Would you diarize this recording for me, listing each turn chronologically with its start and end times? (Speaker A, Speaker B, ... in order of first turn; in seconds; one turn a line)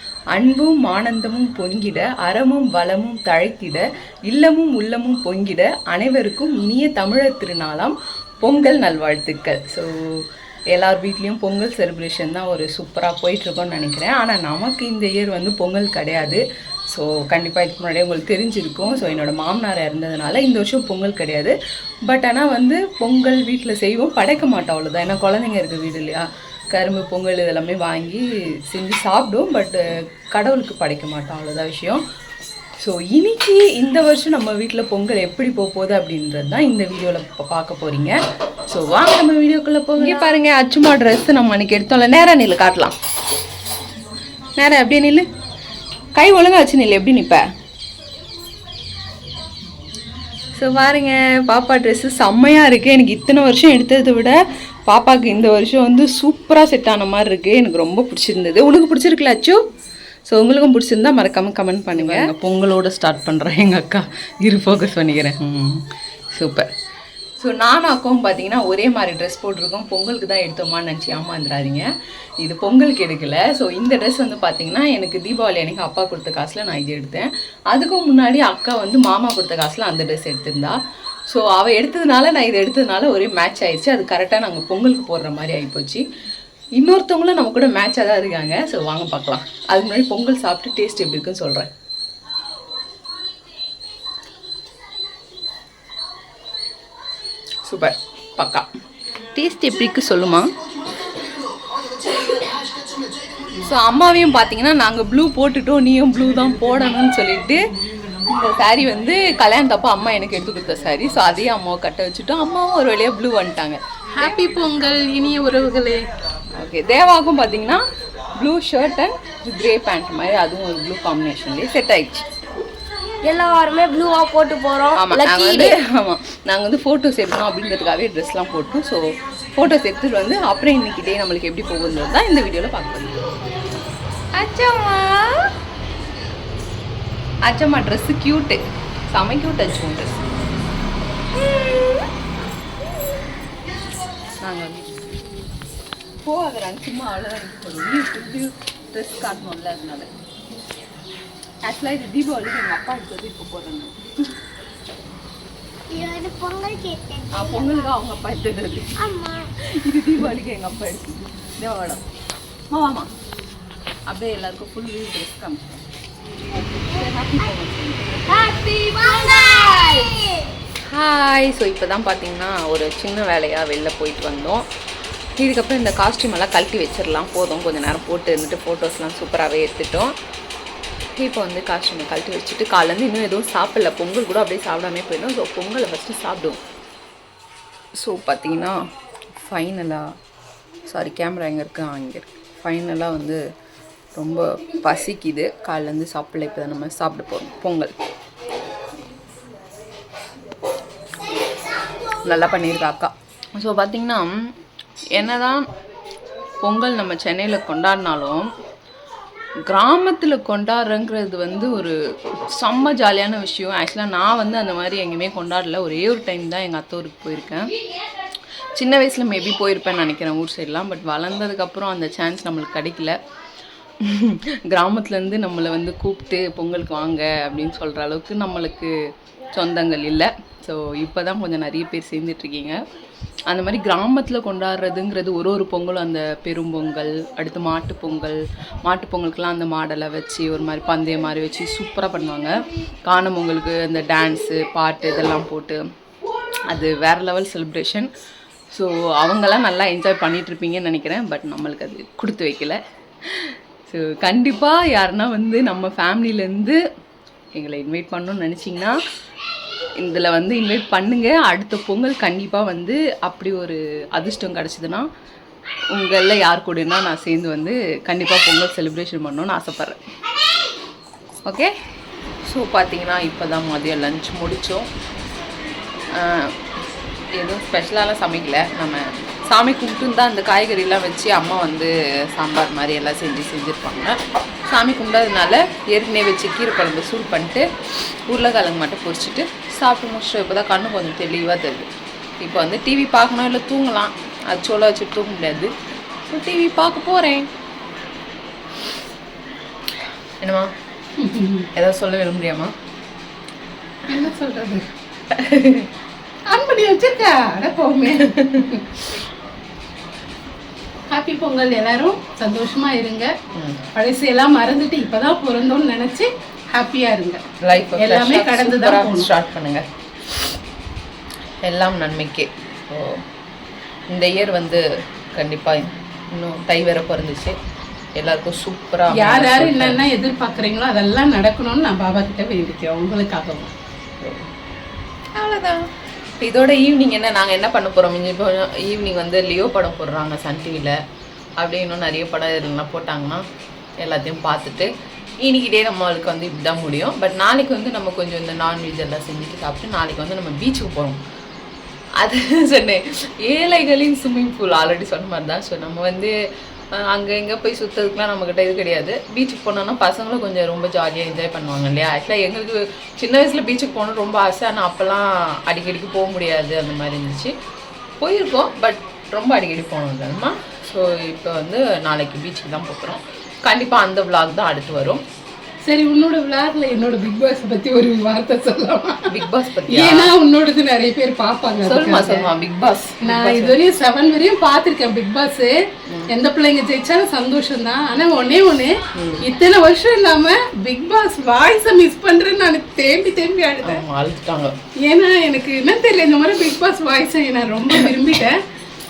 Speaker A: 0.3-32.0
Speaker A: 32.8-42.9
Speaker A: 44.5-45.3
Speaker A: 46.1-47.5
Speaker A: 50.5-59.6
Speaker A: 60.2-66.7
Speaker A: 67.4-71.9
Speaker A: 72.4-80.8
Speaker A: 81.3-86.0
Speaker A: 86.7-91.7
Speaker A: 97.6-98.7
Speaker A: 99.3-100.5
Speaker A: 103.5-107.6
Speaker A: 108.2-113.8
Speaker B: 114.2-116.0
Speaker A: 116.5-117.8
Speaker A: 118.3-122.2
Speaker C: 123.2-125.8
Speaker A: 124.9-133.2
Speaker A: 134.3-135.5
Speaker A: 137.4-138.6
Speaker A: 139.1-140.2
Speaker A: 141.4-142.0
Speaker A: 144.4-144.9
Speaker A: 146.2-150.1
Speaker A: 151.6-154.3
Speaker C: 155.9-157.2
Speaker A: 157.3-162.0
Speaker A: 162.7-163.1
Speaker A: 164.1-165.8
Speaker A: 166.6-170.2
Speaker A: 170.8-174.7
Speaker A: 175.4-180.1
Speaker A: 181.2-186.6
Speaker A: 188.0-188.8
Speaker A: 189.3-190.1
Speaker A: 190.8-193.4
Speaker A: 194.1-197.9
Speaker A: 202.2-204.4
Speaker A: 205.1-205.7
Speaker A: 206.6-208.5
Speaker A: 209.7-211.9
Speaker A: 212.5-217.7
Speaker A: 218.8-223.2
Speaker A: 224.0-228.9
Speaker A: 229.5-232.8
Speaker A: 233.5-245.8
Speaker A: 246.7-248.1
Speaker A: 248.7-256.8
Speaker A: 257.5-259.0
Speaker A: 260.0-265.1
Speaker A: 265.9-270.0
Speaker A: 271.4-271.7
Speaker A: 272.4-274.9
Speaker A: 276.1-276.6
Speaker A: 277.4-284.2
Speaker A: 284.7-291.9
Speaker A: 292.4-295.7
Speaker A: 296.3-297.5
Speaker A: 300.4-300.7
Speaker B: 301.2-301.7
Speaker A: 301.7-302.7
Speaker B: 304.1-304.9
Speaker A: 305.3-305.9
Speaker B: 306.5-309.0
Speaker A: 308.3-308.6
Speaker B: 311.1-313.3
Speaker A: 313.5-313.8
Speaker B: 313.9-319.3
Speaker A: 317.6-319.8
Speaker A: 321.6-323.2
Speaker A: 324.1-327.6
Speaker A: 328.1-330.0
Speaker B: 329.1-333.7
Speaker A: 334.2-334.5
Speaker A: 335.3-335.9
Speaker A: 336.4-341.0
Speaker A: 341.6-343.4
Speaker A: 344.0-344.9
Speaker A: 345.4-351.2
Speaker A: 352.2-356.3
Speaker A: 356.9-367.5
Speaker A: 368.2-375.2
Speaker B: 375.9-382.5
Speaker A: 379.3-380.3
Speaker A: 381.8-383.8
Speaker B: 383.2-394.0
Speaker A: 389.1-389.4
Speaker A: 393.8-394.8
Speaker B: 395.0-398.6